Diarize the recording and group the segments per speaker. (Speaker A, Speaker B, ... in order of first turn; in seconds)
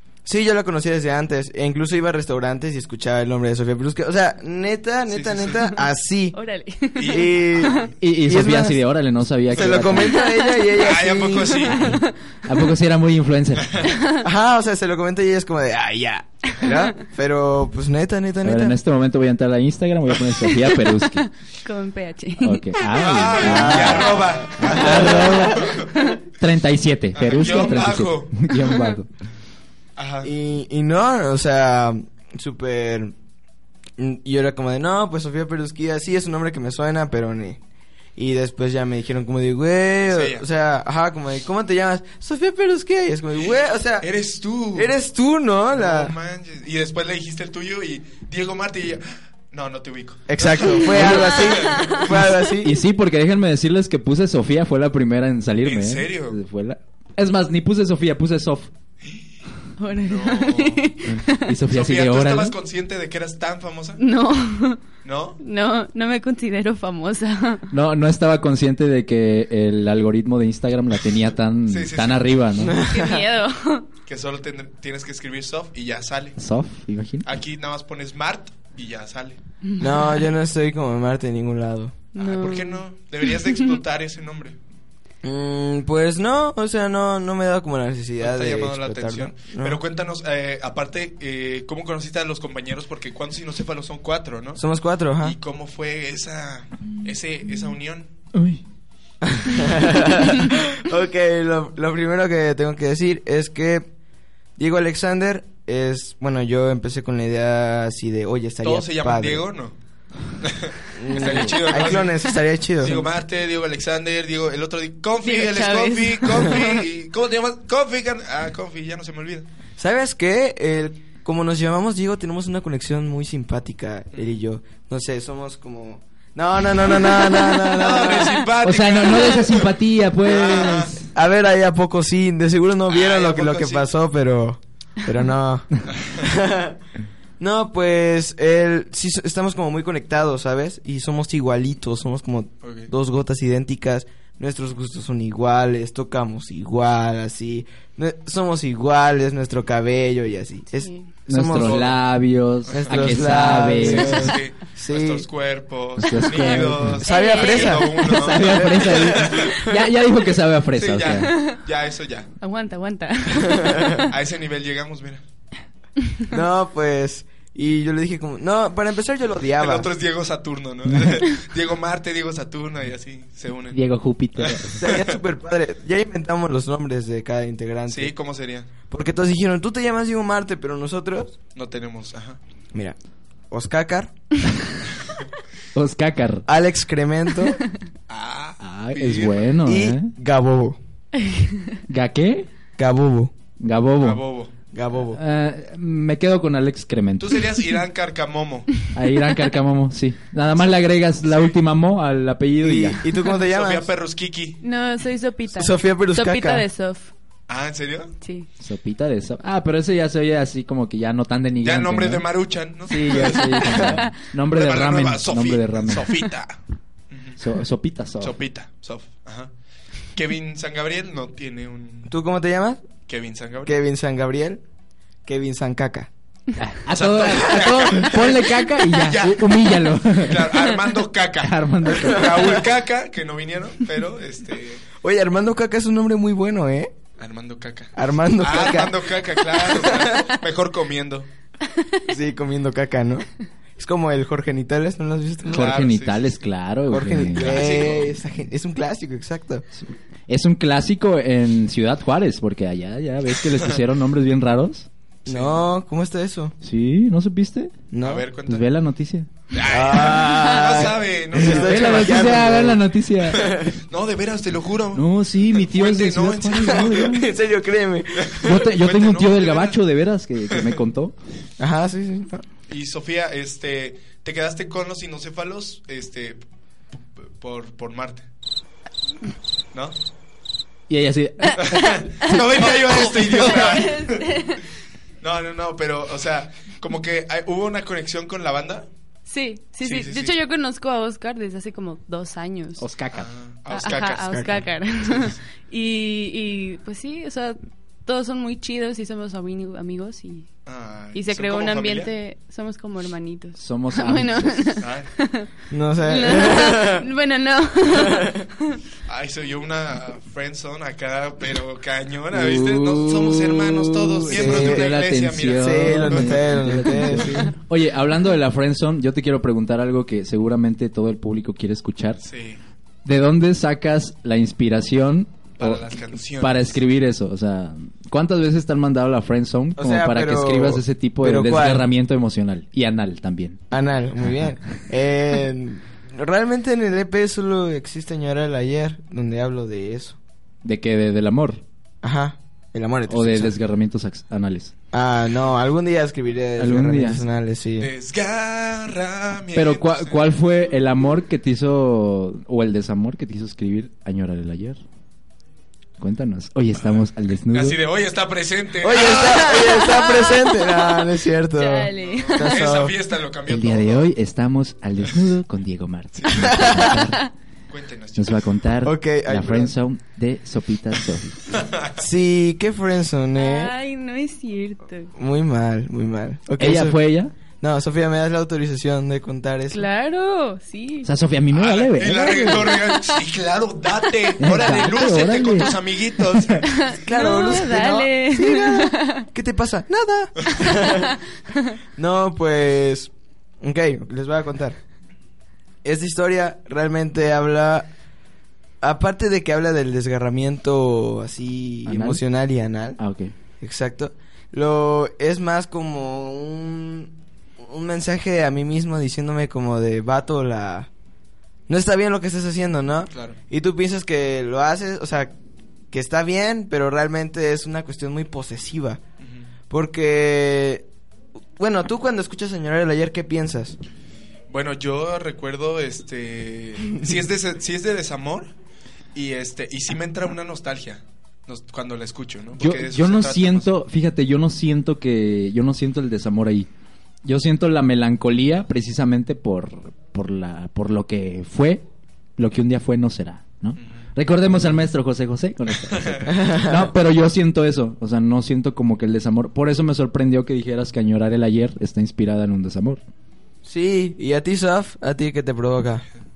Speaker A: 0.2-6.4, 7.0-8.8, 9.5-11.7, 14.2-18.8, 23.3-25.5, 30.2-33.1, 34.0-37.6, 38.2-44.1, 44.7-46.1, 50.3-52.8, 72.6-73.3, 79.8-82.0, 85.2-89.8, 94.6-95.4, 99.2-103.9, 104.6-109.4, 111.0-113.1, 119.8-128.5, 131.1-136.8, 137.4-152.0, 152.7-155.2, 156.5-159.8, 163.5-164.0, 166.3-169.9, 174.8-178.1, 178.9-181.4, 183.5-184.1, 186.5-187.6, 189.6-190.8, 192.8-193.3, 194.7-195.2, 202.6-203.9, 205.6-206.7, 222.1-222.8, 223.7-224.6, 225.3-226.1, 231.9-232.7, 235.0-236.9, 237.9-240.4, 242.1-243.3, 243.8-245.7, 246.9-249.7, 255.3-256.6, 257.9-258.3, 259.6-263.8, 266.8-268.6, 271.6-272.4, 305.7-307.1, 307.9-308.4, 314.3-314.9, 315.6-317.5, 329.8-331.9, 333.7-340.2, 342.0-343.6, 344.9-347.9, 358.8-362.9, 366.4-367.0, 368.9-369.7, 372.0-373.7, 375.2-377.0, 377.6-379.9, 387.0-391.2, 392.0-393.1, 393.6-394.8, 395.8-397.9, 398.8-403.0, 403.6-410.9, 411.7-415.3, 415.9-419.0, 419.7-420.9, 421.6-423.8, 446.3-446.9, 453.6-456.1
Speaker B: 5.1-5.7, 7.0-7.9, 10.8-11.9, 13.6-13.9, 22.9-25.9, 27.1-28.6, 30.0-30.3, 40.0-40.5, 43.5-45.0, 45.7-52.2, 55.6-56.4, 60.0-61.0, 61.7-64.0, 65.0-65.4, 71.7-72.4, 74.1-76.4, 77.2-79.4, 82.2-84.6, 88.2-94.6, 95.2-98.1, 108.6-109.8, 110.4-119.5, 127.7-130.9, 132.9-133.9, 135.9-136.2, 142.6-142.9, 152.7-159.6, 160.7-162.3, 164.0-165.2, 169.6-173.8, 174.4-175.2, 177.9-178.7, 181.5-182.4, 188.1-189.4, 194.0-194.5, 197.2-198.8, 201.2-201.5, 203.4-204.6, 207.5-208.1, 211.6-216.6, 217.1-217.4, 218.2-219.5, 220.2-222.1, 223.1-223.8, 226.9-234.8, 237.2-241.3, 245.5-246.3, 247.4-248.2, 253.5-253.8, 255.2-255.7, 258.0-258.7, 259.5-262.6, 263.3-267.2, 268.2-269.8, 270.5-270.8, 272.7-276.4, 276.9-278.3, 281.6-284.3, 285.2-288.9, 289.8-290.4, 293.1-295.4, 300.7-302.1, 304.8-305.1, 309.1-316.4, 322.2-322.6, 325.6-326.8, 347.8-350.2, 356.9-359.9, 362.0-364.1, 366.1-366.9, 367.7-368.5, 371.4-372.0, 381.5-386.7, 424.5-428.5, 429.1-433.7, 445.9-446.3
Speaker C: 6.3-7.9, 9.9-12.1, 13.8-14.3, 20.9-22.9, 25.9-26.2, 28.6-28.9, 50.9-52.1, 59.8-61.6, 64.0-64.8, 65.4-67.7, 72.8-73.9, 79.7-80.1, 82.1-83.8, 115.2-116.8, 150.7-151.1, 157.0-158.3, 161.1-161.6, 162.4-164.1, 191.2-191.8, 204.6-207.1, 208.2-208.5, 213.8-214.1, 260.3-260.8, 281.5-284.7, 289.3-292.9, 293.7-300.5, 301.1-308.8, 359.2-362.7, 373.4-375.1, 379.7-381.1, 382.0-383.2, 386.6-389.2, 390.5-391.6
Speaker D: 8.0-10.2, 11.7-13.7, 18.4-21.3, 22.4-25.9, 26.4-29.1, 50.9-51.3, 52.6-58.7, 61.1-62.5, 67.7-72.8, 76.4-77.3, 98.3-98.6, 128.6-131.1, 151.3-154.3, 156.0-157.0, 158.0-161.3, 173.7-174.8, 185.7-186.5, 188.6-190.1, 191.9-192.5, 193.6-194.2, 195.1-197.4, 198.9-203.0, 208.6-212.2, 212.9-216.2, 217.4-218.4, 226.6-230.7, 231.4-232.4, 245.5-247.7, 249.8-254.9, 256.6-257.7, 258.5-259.3, 261.4-263.4, 264.9-267.3, 268.4-271.1, 280.9-281.8, 292.8-293.3, 303.6-304.8, 312.3-322.2, 323.1-333.6, 340.6-341.6, 343.1-344.7, 346.6-347.2, 349.5-354.8, 356.0-357.8, 363.5-367.2, 368.2-371.4, 376.6-377.3, 381.0-382.6, 384.4-385.7, 401.9-402.2, 403.0-403.3, 432.6-436.7, 437.2-441.9, 442.4-453.0